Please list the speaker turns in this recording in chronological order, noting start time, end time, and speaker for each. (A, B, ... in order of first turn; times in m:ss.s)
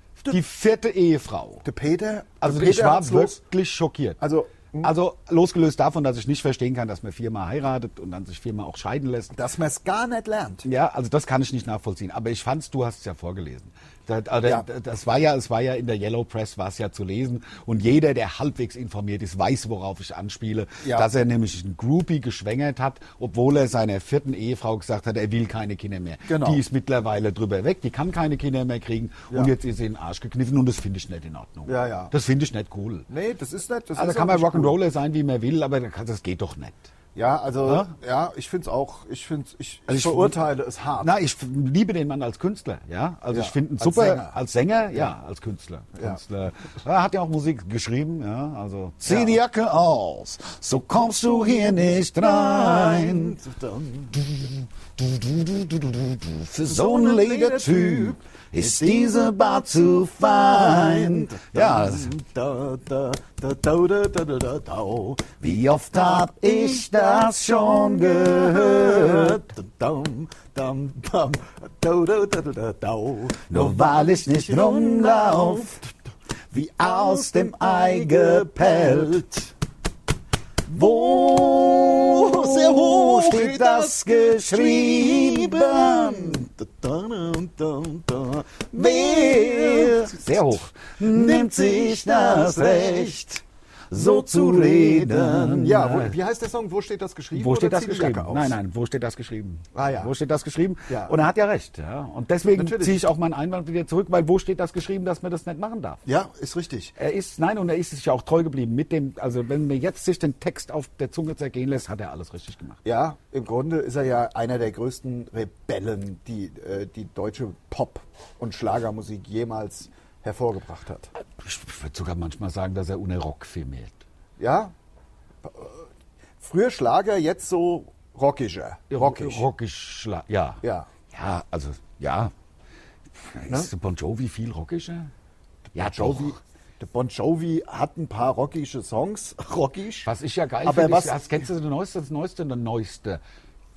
0:00.2-0:01.6 A
0:01.6-0:03.4 B
0:02.4-0:04.2 A
0:04.2-0:04.9 B
0:04.8-0:09.4 A
0:09.3-0:10.7 B
0:10.6-0:33.1 A
0:20.8-0:21.1 B
0:26.2-0:26.6 B
0:31.7-0:32.1 B
0:33.1-0:34.8 B
0:34.0-0:36.9 A
0:37.2-0:41.1 B
0:37.6-0:37.9 A
0:39.9-0:40.4 A
0:41.0-0:53.4 A
0:43.3-0:44.4 B
0:49.1-0:49.4 B
0:52.2-0:54.3 B
0:54.2-1:02.1 A
0:56.6-0:59.1 B
1:00.4-1:05.4 B
1:05.4-1:09.4 A
1:07.2-1:15.9 B
1:13.5-1:15.8 A
1:16.5-1:19.5 A
1:16.6-1:19.5 B
1:20.7-1:26.5 A
1:20.7-1:30.5 B
1:28.8-1:36.2 A
1:31.1-1:33.2 B
1:33.9-1:38.6 B
1:37.4-1:46.0 A
1:39.7-1:40.1 B
1:40.9-1:41.2 B
1:42.5-1:43.0 B
1:46.1-1:47.0 B
1:47.0-1:52.8 A
1:52.8-2:01.1 B
2:01.4-2:04.0 A
2:04.4-2:04.7 B
2:05.4-2:05.8 B
2:06.4-2:09.5 B
2:08.9-2:12.3 A
2:10.6-2:10.9 B
2:13.1-2:15.1 A
2:15.7-2:20.1 B
2:15.8-2:16.4 A
2:20.0-2:23.2 A
2:20.6-2:21.4 B